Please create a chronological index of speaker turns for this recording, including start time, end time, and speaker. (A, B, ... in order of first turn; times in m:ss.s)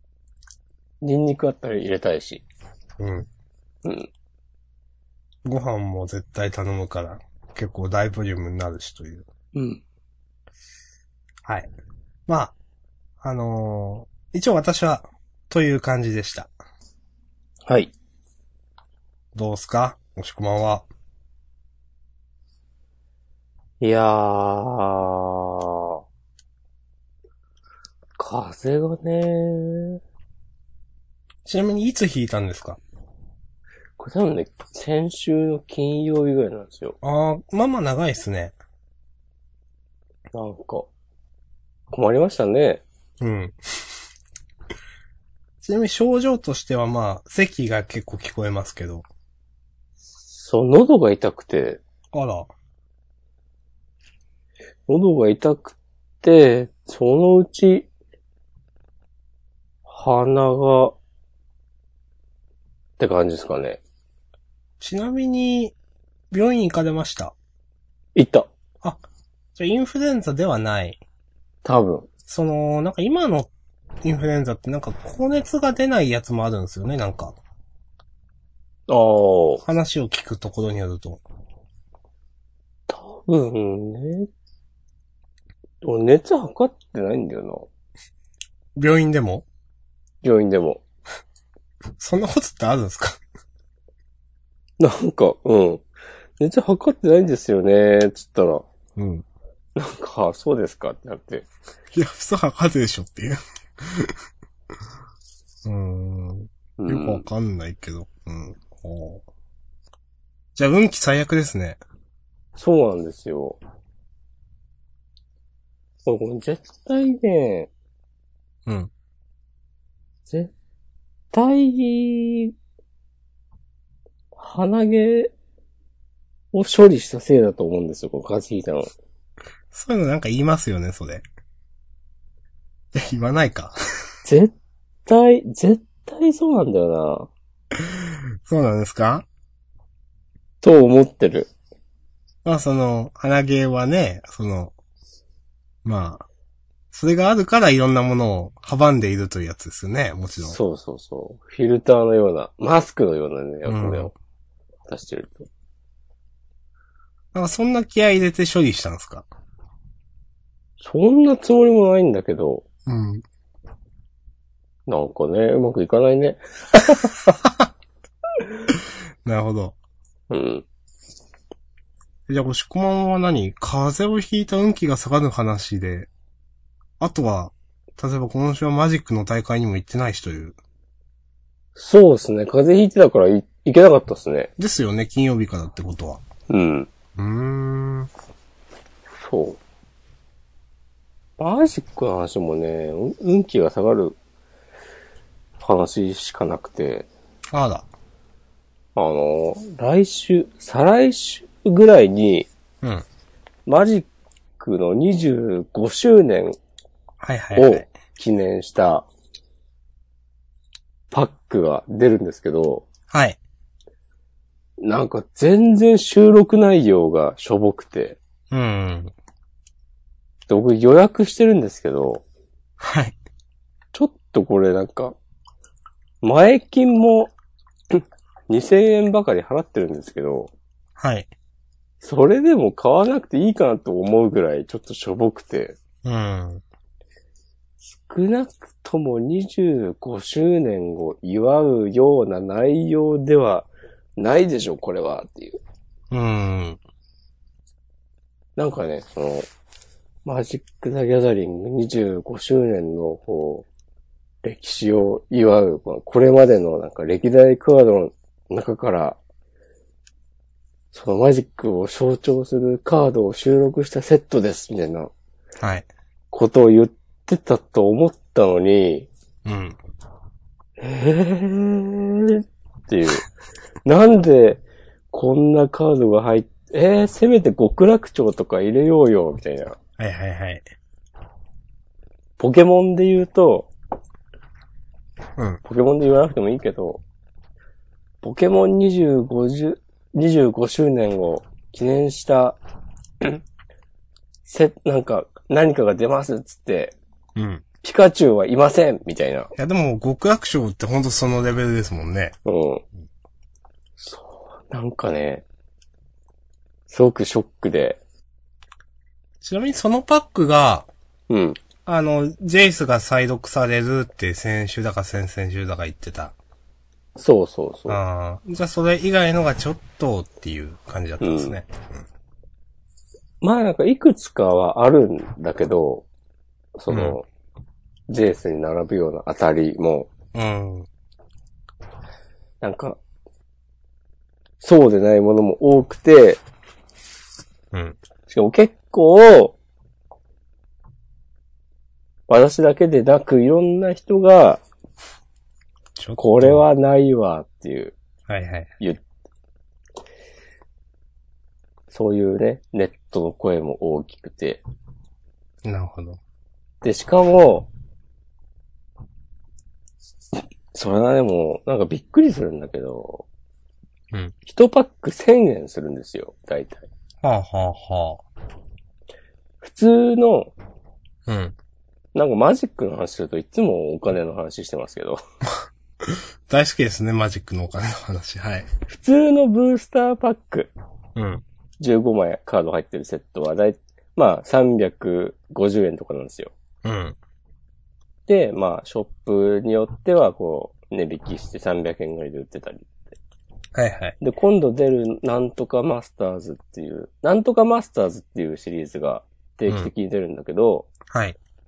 0:01.0-0:02.4 A
0:03.0-0:03.3 B
0:03.8-0:04.1 A
0:05.4-0:09.3 B
0:09.5-0:09.8 A
0:12.3-0:12.5 B
0:13.2-0:16.5 B
0:17.6-0:17.9 A
0:19.3-0:20.8 B
0:23.8-0:26.0 A
0:28.2-0:30.0 A
0:31.4-0:32.8 B
0:34.0-0:37.0 A
0:37.0-0:38.5 B
0:40.3-0:40.9 A
0:41.9-0:42.8 A
0:43.2-0:43.6 B
0:45.6-0:49.0 B
0:50.3-0:51.8 A
0:52.1-0:52.5 B
0:54.9-0:57.9 A
0:59.8-1:01.0 A
1:03.0-1:03.8 A
1:04.8-1:05.7 B
1:06.3-1:07.3 B
1:08.2-1:08.5 A
1:09.6-1:11.0 B
1:11.6-1:12.1 A
1:12.3-1:13.5 B
1:14.0-1:17.4 B
1:18.9-1:19.6 A
1:19.6-1:21.2 B
1:22.9-1:24.3 A
1:25.8-1:27.7 A
1:28.8-1:29.4 B
1:30.2-1:30.8 A
1:32.0-1:33.2 B
1:34.8-1:35.8 A
1:36.4-1:38.6 A
1:39.0-1:39.2 B
1:39.8-1:41.5 A
1:41.9-1:44.1 B
1:45.6-1:49.2 B
1:46.8-1:47.2 A
1:50.6-1:51.8 B
1:52.6-1:53.6 A
1:56.0-1:57.7 A
2:01.3-2:02.5 A
2:04.3-2:05.3 A
2:06.5-2:08.9 A
2:09.7-2:11.2 B
2:12.9-2:13.7 B
2:14.2-2:14.5 A
2:15.0-2:17.3 A
2:17.8-2:19.2 B
2:20.6-2:21.5 A
2:22.4-2:24.7 B
2:25.8-2:26.2 B
2:26.9-2:30.6 B
2:30.4-2:34.1 A
2:33.6-2:34.1 B
2:34.9-2:35.5 A
2:37.3-2:39.2 B
2:40.8-2:42.6 A
2:42.8-2:43.2 B
2:44.9-2:47.0 A
2:47.3-2:47.6 B
2:49.2-2:49.8 B
2:50.3-2:50.6 A
2:52.3-2:56.1 B
2:57.0-3:00.6 B
3:01.8-3:04.5 A
3:04.6-3:06.2 B
3:06.5-3:06.9 A
3:07.2-3:08.1 B
3:09.2-3:09.6 A
3:11.4-3:14.2 A
3:15.6-3:17.1 A
3:17.5-3:17.9 B
3:18.9-3:22.5 A
3:23.6-3:24.1 A
3:24.6-3:26.6 A
3:27.2-3:27.9 B
3:27.6-3:29.1 A
3:31.1-3:32.9 A
3:33.1-3:33.4 B
3:34.8-3:38.2 A
3:38.5-3:39.1 B
3:40.5-3:42.2 A
3:42.8-3:43.2 B
3:43.9-3:45.2 A
3:46.2-3:47.3 A
3:47.9-3:50.5 A
3:51.0-3:51.3 B
3:52.0-3:55.8 A
3:56.0-3:56.6 B
3:57.8-4:05.6 A
4:06.1-4:06.8 B
4:08.6-4:09.5 A
4:10.2-4:13.6 A
4:14.4-4:19.2 A
4:20.9-4:25.1 A
4:25.6-4:25.9 B
4:26.3-4:29.1 A
4:29.4-4:29.8 B
4:30.8-4:33.2 A
4:33.8-4:39.8 A
4:40.0-4:40.6 B
4:42.4-4:43.7 A
4:45.6-4:47.0 A
4:48.2-4:52.6 A
4:54.4-4:56.9 A
4:57.4-4:57.6 B
4:57.8-4:59.5 A
4:59.6-5:02.4 B
5:02.4-5:02.8 A
5:04.0-5:05.4 A
5:06.9-5:08.0 A
5:09.4-5:10.9 B
5:11.3-5:11.6 A
5:11.8-5:16.3 B
5:17.2-5:18.0 A
5:17.9-5:21.9 B
5:21.2-5:21.6 A
5:23.4-5:26.0 A
5:26.8-5:27.2 A
5:26.9-5:27.2 B
5:28.1-5:30.1 A
5:30.3-5:30.9 B
5:32.6-5:33.0 A
5:34.6-5:36.4 A
5:38.3-5:39.6 A
5:42.3-5:44.6 A
5:46.0-5:46.6 B
5:46.2-5:47.9 A
5:48.3-5:48.7 B
5:51.9-5:54.6 A
5:55.6-5:56.2 B
5:56.8-5:57.7 A
6:00.7-6:03.2 A
6:04.4-6:06.9 A
6:07.2-6:08.2 B
6:09.6-6:10.5 A
6:11.3-6:11.5 B
6:12.1-6:15.2 A
6:16.0-6:18.7 B
6:18.9-6:20.7 A
6:21.2-6:21.4 B
6:21.8-6:26.5 A
6:26.8-6:27.2 B
6:28.3-6:33.0 A
6:33.7-6:34.2 B
6:34.2-6:40.9 A
6:41.1-6:41.4 B